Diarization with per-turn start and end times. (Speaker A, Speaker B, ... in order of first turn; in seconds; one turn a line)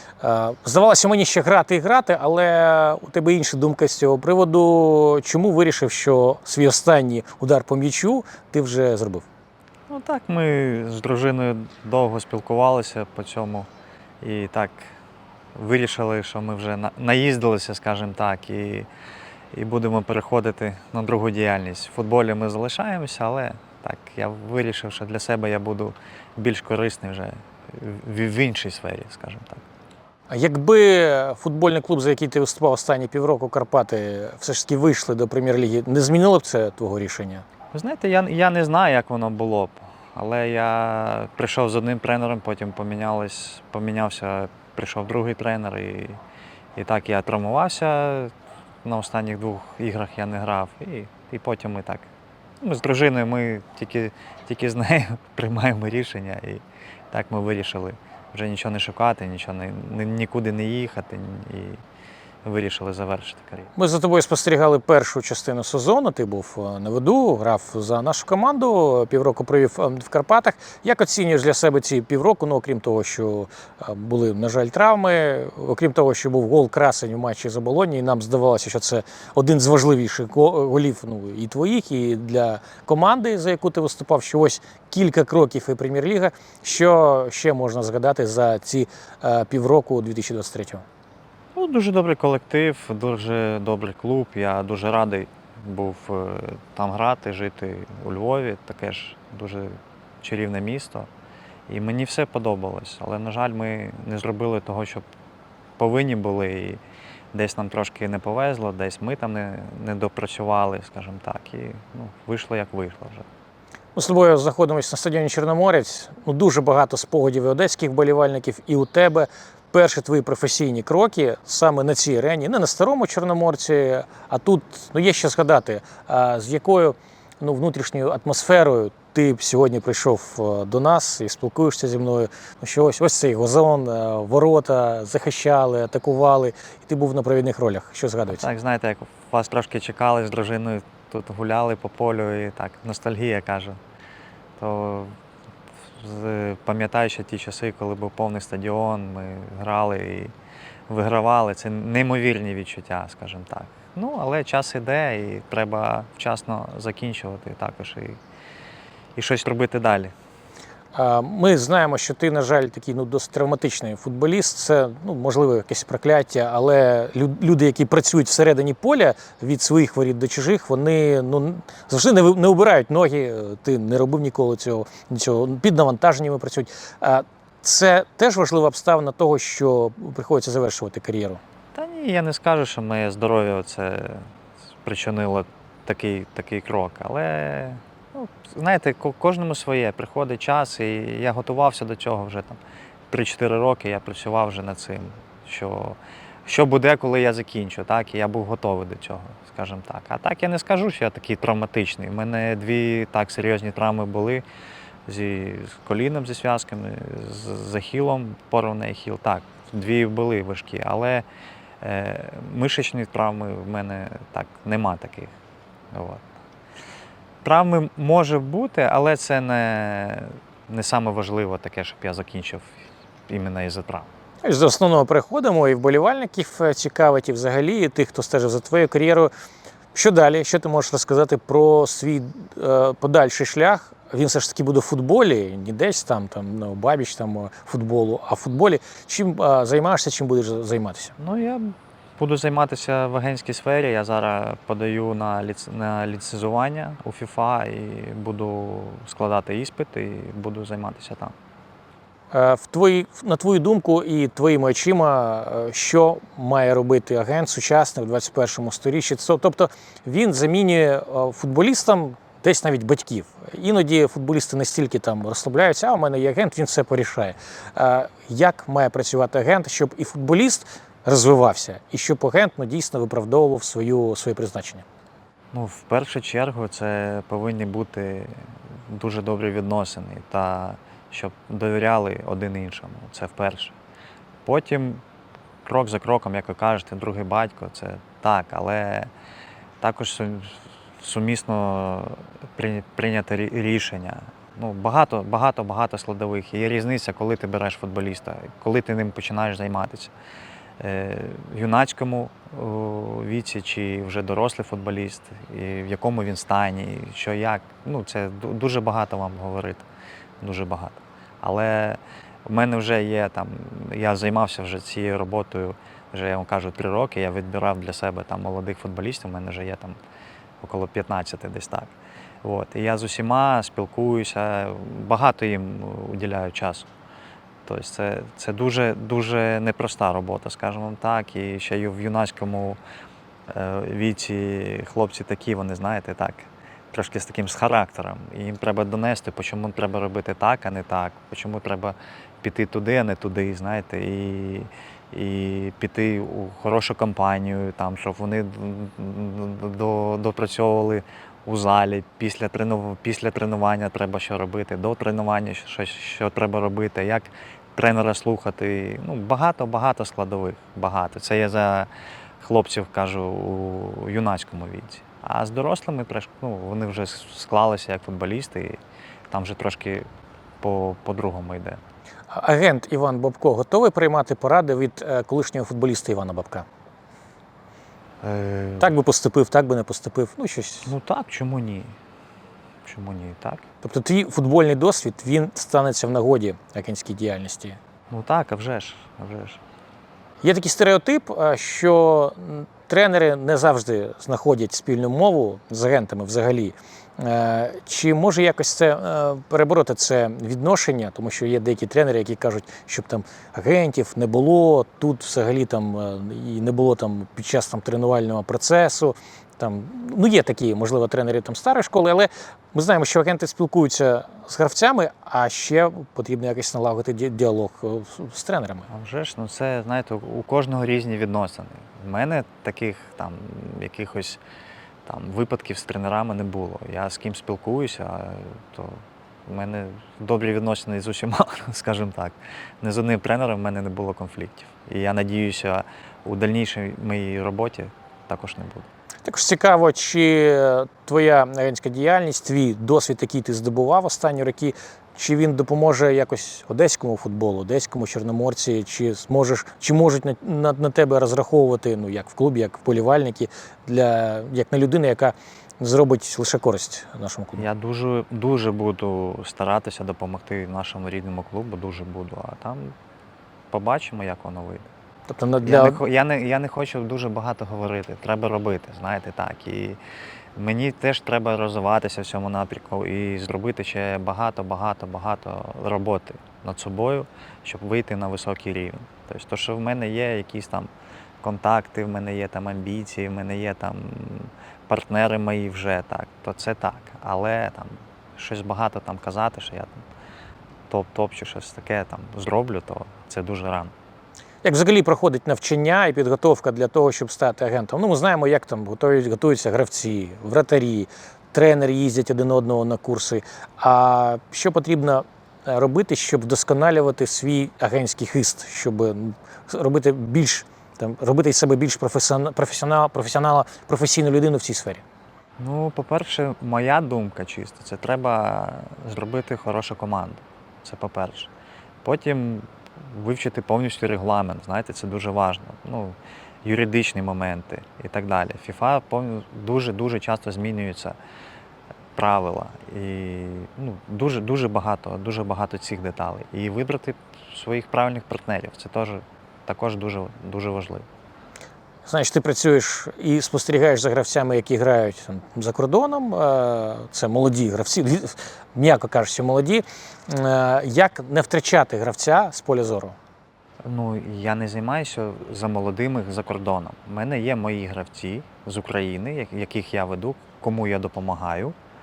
Speaker A: 0.2-9.2
Speaker B: 9.9-13.7
Speaker B: 14.2-14.9
Speaker B: 15.6-18.9
Speaker B: 19.5-29.6
Speaker A: 30.3-37.4
Speaker B: 37.7-46.2
Speaker B: 46.8-48.3
Speaker B: 48.8-52.1
Speaker B: 52.6-61.8
Speaker B: 62.4-63.7
Speaker A: 63.8-90.8
Speaker B: 91.5-101.1
Speaker B: 101.7-105.0
Speaker B: 105.8-106.8
Speaker B: 107.3-113.2
Speaker A: 114.0-138.4
Speaker B: 138.3-143.8
Speaker B: 144.6-145.1
Speaker B: 146.0-150.3
Speaker B: 150.9-158.2
Speaker B: 159.2-160.1
Speaker A: 160.9-181.4
Speaker B: 181.7-184.3
Speaker B: 184.8-192.6
Speaker B: 193.1-204.4
Speaker B: 205.1-211.2
Speaker B: 211.8-215.3
Speaker B: 215.9-216.2
Speaker B: 217.4-224.1
Speaker A: 224.4-229.3
Speaker A: 229.9-241.1
Speaker B: 241.2-251.3
Speaker A: 252.3-274.8
Speaker B: 275.5-283.7
Speaker B: 284.4-285.0
Speaker B: 285.6-289.1
Speaker B: 289.8-300.1
Speaker B: 300.8-309.9
Speaker B: 310.4-319.9
Speaker B: 320.6-326.9
Speaker B: 327.6-332.8
Speaker B: 333.5-361.9
Speaker B: 362.4-368.8
Speaker B: 369.3-370.1
Speaker B: 370.6-371.8
Speaker A: 372.3-376.7
Speaker B: 378.2-378.9
Speaker A: 378.8-380.9
Speaker B: 380.8-381.9
Speaker B: 382.8-383.6
Speaker A: 383.8-387.8
Speaker B: 388.1-389.6
Speaker A: 390.4-418.9
Speaker B: 418.9-424.4
Speaker B: 425.1-438.9
Speaker A: 439.2-457.6
Speaker B: 457.6-462.9
Speaker B: 463.7-464.9
Speaker A: 465.3-466.0
Speaker B: 465.6-470.0
Speaker B: 470.6-480.9
Speaker B: 481.4-490.0
Speaker B: 490.9-493.9
Speaker A: 494.6-515.0
Speaker B: 515.6-521.5
Speaker B: 522.0-531.1
Speaker B: 532.1-541.0
Speaker A: 542.0-553.1
Speaker B: 553.8-561.7